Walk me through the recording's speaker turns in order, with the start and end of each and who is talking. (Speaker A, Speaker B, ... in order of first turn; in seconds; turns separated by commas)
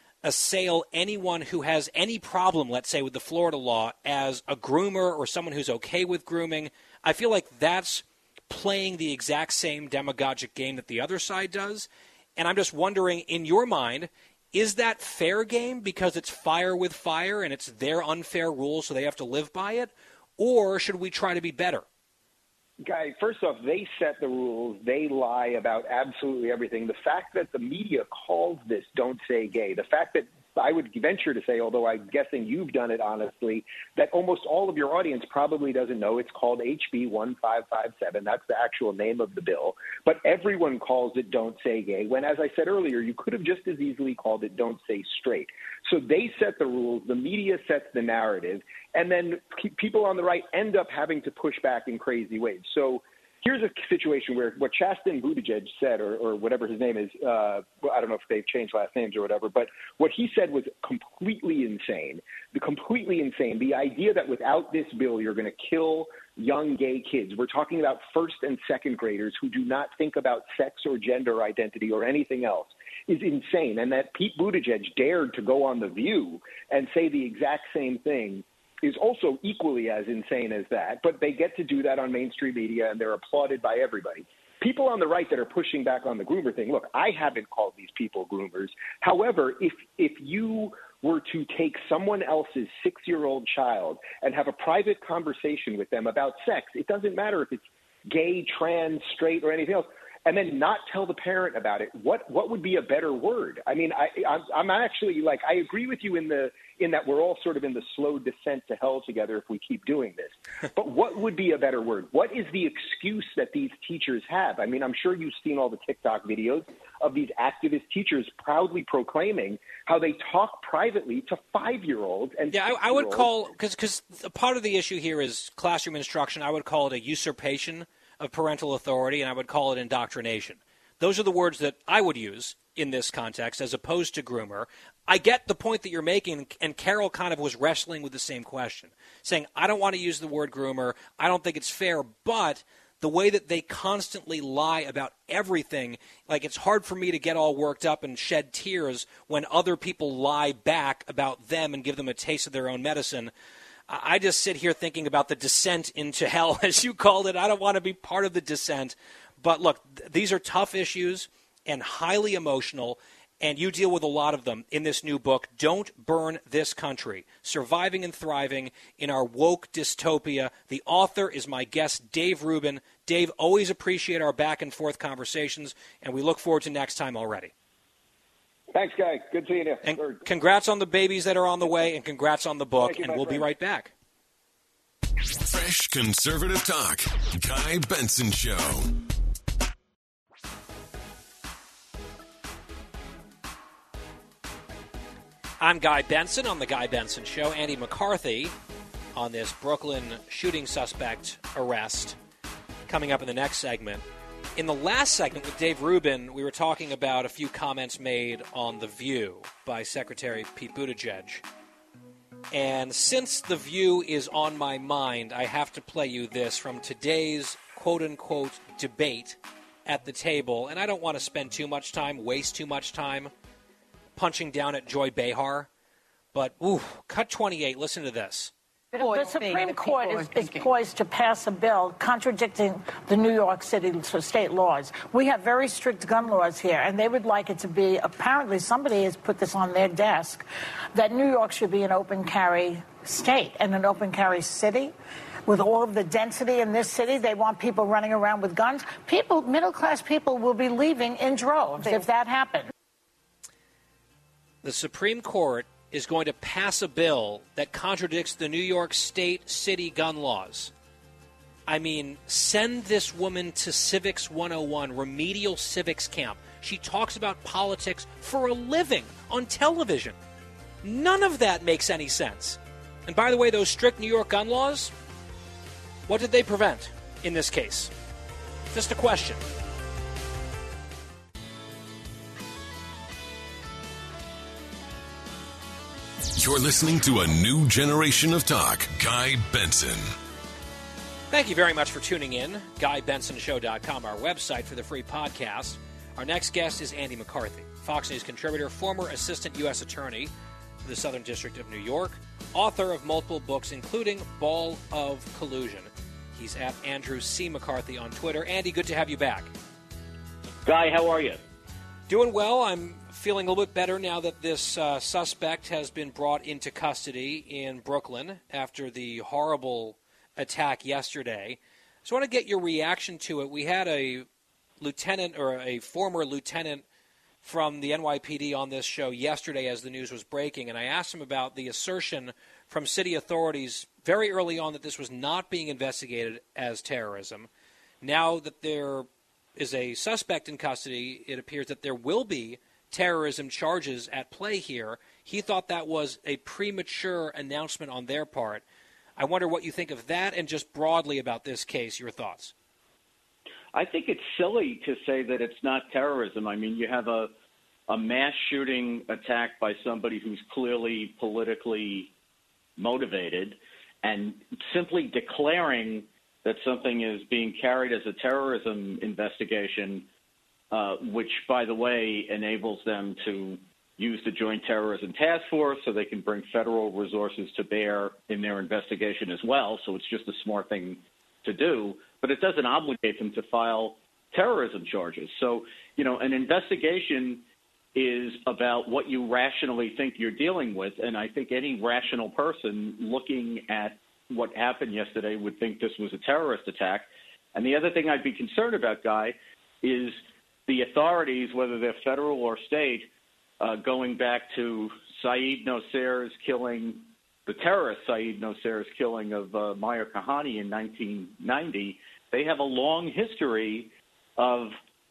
Speaker A: 0.2-21.9, Speaker B: 22.8-123.3, Speaker A: 122.5-153.3, Speaker A: 153.9-177.5, Speaker B: 178.7-180.2, Speaker A: 179.8-183.9, Speaker B: 182.8-183.4, Speaker C: 185.4-188.9, Speaker A: 195.6-198.5, Speaker A: 199.2-202.2, Speaker A: 202.9-204.0, Speaker A: 204.6-211.4, Speaker A: 212.5-223.3, Speaker A: 224.2-225.7, Speaker A: 226.3-228.5, Speaker D: 228.9-244.9, Speaker D: 245.5-252.7, Speaker A: 254.6-260.7, Speaker A: 261.7-270.2, Speaker A: 270.8-274.9, Speaker A: 276.1-277.9, Speaker A: 278.7-279.4, Speaker C: 286.4-290.1, Speaker A: 291.3-300.3, Speaker A: 300.9-309.5, Speaker E: 310.6-311.4, Speaker A: 312.1-324.3, Speaker A: 324.8-326.9, Speaker A: 327.4-337.5, Speaker A: 338.0-348.6, Speaker A: 349.2-352.5, Speaker E: 353.7-357.3, Speaker E: 357.9-362.1, Speaker E: 362.8-370.1, Speaker E: 370.7-387.4, Speaker E: 388.0-414.8